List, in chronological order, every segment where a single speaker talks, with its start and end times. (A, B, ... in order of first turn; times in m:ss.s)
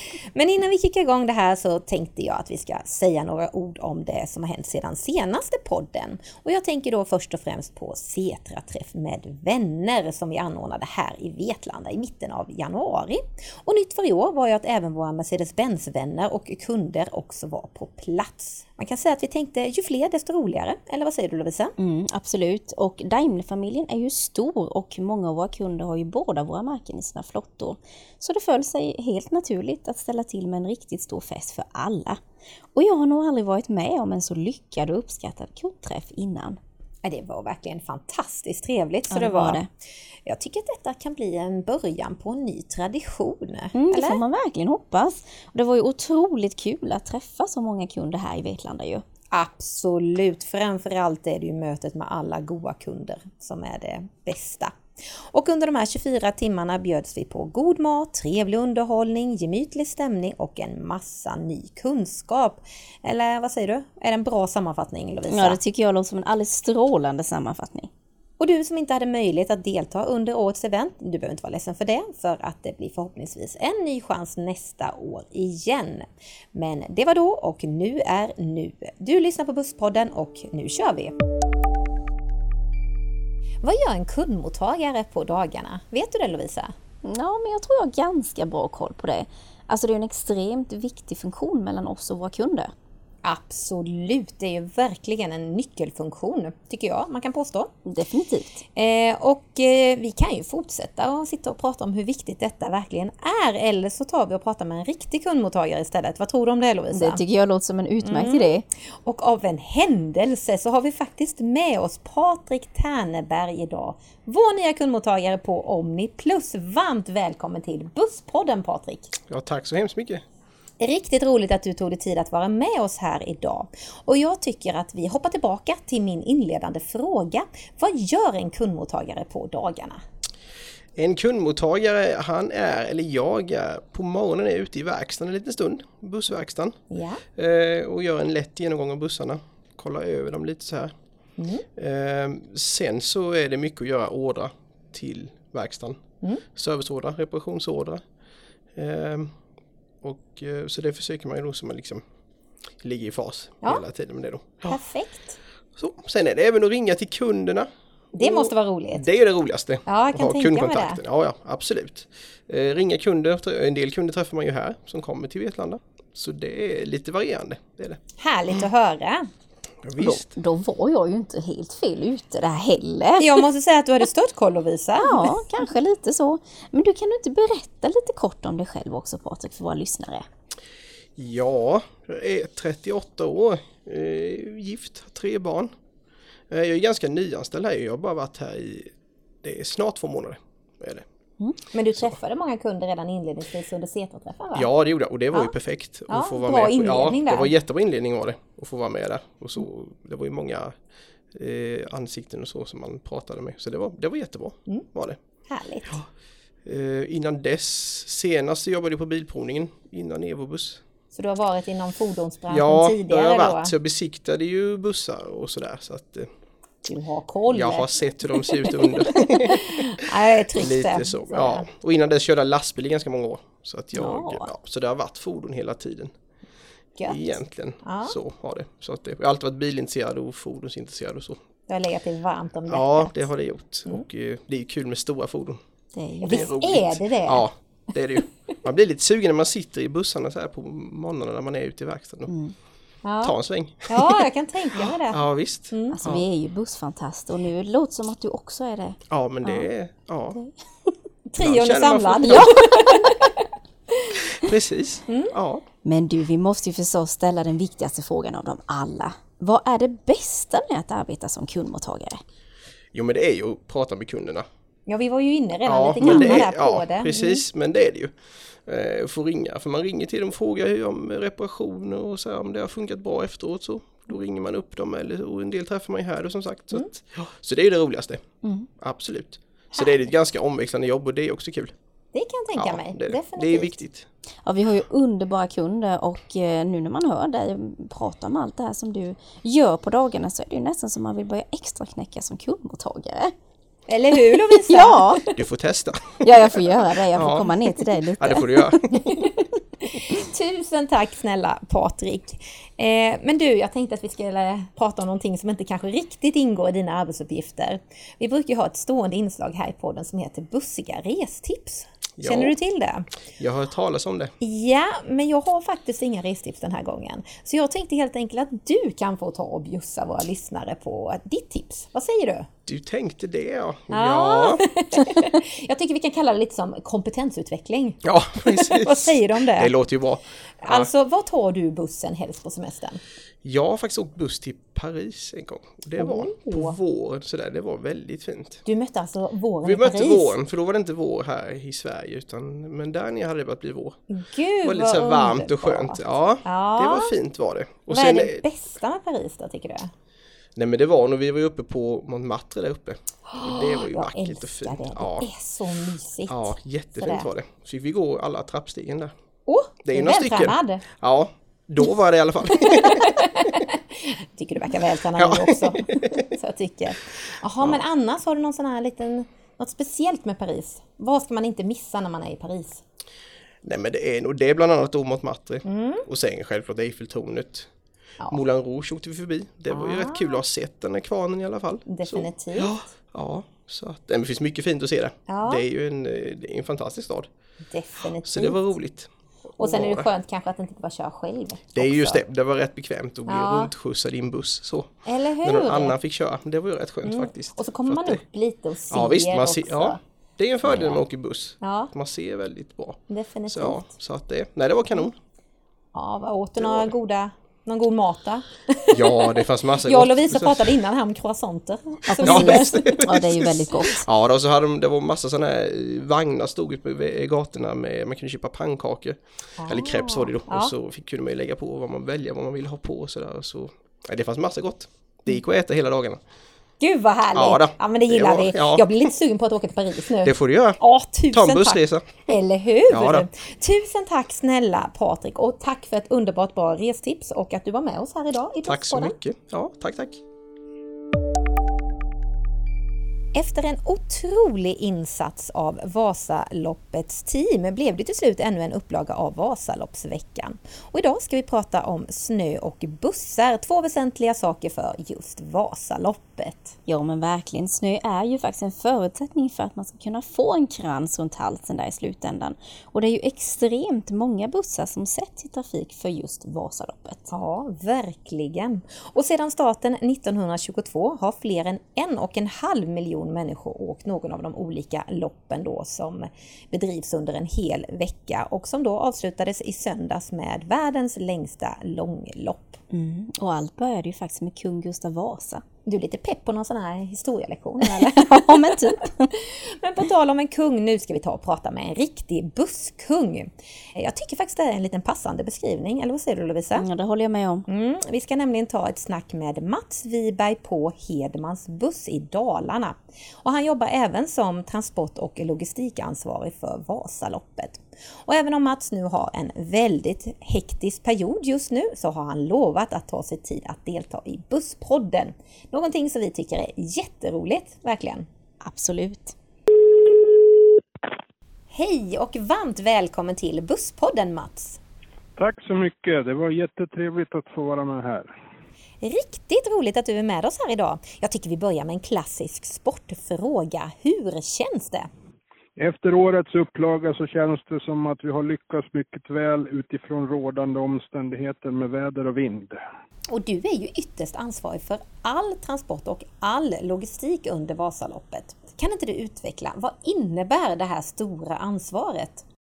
0:00.3-0:21.7 A
0:21.8-0:32.2 B
0:32.7-0:36.6 B
0:37.0-0:39.6 A
0:39.1-0:39.7 B
0:40.2-0:44.2 A
0:43.7-0:49.0 B
0:49.3-0:54.7 A
0:55.3-1:05.6 A
1:05.3-1:07.9 B
1:08.4-1:21.1 A
1:23.6-1:26.7 A
1:27.0-1:32.7 B
1:33.2-1:37.7 A
1:37.8-1:38.6 B
1:38.8-1:47.2 A
1:46.9-1:48.6 B
1:48.0-1:48.5 A
1:49.0-1:59.1 A
1:59.3-2:00.2 C
2:00.8-2:10.0 A
2:11.0-2:16.8 C
2:16.9-2:17.2 A
2:17.4-2:20.9 C
2:21.4-2:21.6 A
2:21.8-2:26.0 C
2:26.5-2:28.0 C
2:28.8-2:29.3 C
2:30.0-2:32.0 C
2:32.8-2:34.8 C
2:34.6-2:35.4 A
2:35.8-2:48.0 C
2:38.1-2:39.1 A
2:39.8-2:41.0 A
2:48.2-2:49.2 A
2:49.8-2:50.3 C
2:50.0-2:53.4 B
2:53.2-2:55.4 A
2:55.0-3:00.2 B
3:01.2-3:05.7 C
3:06.5-3:08.9 C
3:09.4-3:11.0 C
3:11.7-3:14.7 A
3:14.5-3:20.7 C
3:16.1-3:17.5 A
3:21.3-3:25.2 C
3:25.5-3:26.0 A
3:26.6-3:30.8 C
3:31.1-3:33.7 A
3:32.5-3:36.3 C
3:36.8-3:41.7 A
3:37.5-3:39.8 C
3:40.5-3:46.1 C
3:44.0-3:44.5 B
3:47.0-3:48.2 A
3:47.1-3:51.4 C
3:51.7-3:53.3 A
3:52.7-3:55.6 C
3:55.9-3:56.4 B
3:56.2-4:02.3 C
3:56.2-3:57.5 A
4:02.3-4:02.5 B
4:03.0-4:03.4 A
4:03.2-4:04.2 C
4:03.9-4:06.0 A
4:05.1-4:06.2 C
4:05.9-4:09.7 B
4:09.1-4:10.4 C
4:11.3-4:13.1 A
4:11.4-4:12.6 C
4:12.2-4:13.1 B
4:14.4-4:15.6 C
4:15.1-4:15.3 A
4:15.8-4:22.2 B
4:22.9-4:24.4 C
4:24.9-4:27.4 A
4:25.6-4:28.1 C
4:26.0-4:26.4 B
4:28.6-4:38.2 C
4:38.8-4:41.7 C
4:42.1-4:43.8 A
4:42.5-4:44.1 C
4:44.4-4:53.3 B
4:53.9-4:55.3 A
4:54.3-4:55.2 B
4:55.4-4:56.6 C
4:56.2-4:59.2 B
4:57.1-4:58.8 C
4:59.9-5:13.1 A
5:12.2-5:12.5 C
5:13.4-5:14.3 C
5:14.4-5:22.5 A
5:22.6-5:24.6 C
5:23.9-5:29.7 A
5:28.0-5:30.9 C
5:30.6-5:33.0 A
5:33.4-5:38.6 C
5:36.0-5:36.8 A
5:38.6-5:40.4 A
5:39.6-5:44.0 C
5:44.1-5:47.2 A
5:44.6-5:48.4 C
5:47.9-5:49.9 A
5:50.6-5:55.3 C
5:53.3-5:57.3 A
5:56.3-5:59.1 C
5:59.4-6:00.8 A
5:59.8-6:03.1 C
6:02.6-6:12.8 A
6:05.2-6:06.1 C
6:13.6-6:17.7 C
6:15.6-6:16.0 A
6:18.3-6:27.3 C
6:19.7-6:20.4 A
6:21.9-6:22.8 A
6:25.3-6:25.6 A
6:27.7-6:28.6 A
6:28.2-6:30.1 C
6:29.6-6:32.2 A
6:31.7-6:38.2 C
6:33.3-6:33.7 A
6:35.0-6:36.0 A
6:37.0-6:40.0 A
6:38.9-6:45.1 C
6:40.6-6:41.0 A
6:41.6-6:41.9 A
6:43.1-6:43.9 A
6:45.9-6:53.2 A
6:48.9-6:50.7 C
6:52.1-6:54.0 B
6:52.2-7:06.2 C
6:59.6-7:00.7 A
7:06.8-7:19.2 A
7:07.3-7:08.9 C
7:10.2-7:10.8 C
7:11.3-7:12.2 C
7:12.9-7:13.3 C
7:18.6-7:20.2 C
7:23.3-7:36.7 A
7:36.9-7:47.3 B
7:47.3-8:02.8 A
8:02.9-8:05.6 B
8:05.8-8:08.6 A
8:07.8-8:09.3 B
8:09.3-8:16.8 A
8:16.8-8:17.6 B
8:17.7-8:38.2 A
8:38.6-8:39.3 B
8:41.7-8:44.8 A
8:45.4-8:48.3 D
8:49.0-8:55.1 A
8:55.8-9:02.8 D
9:03.3-9:12.4 A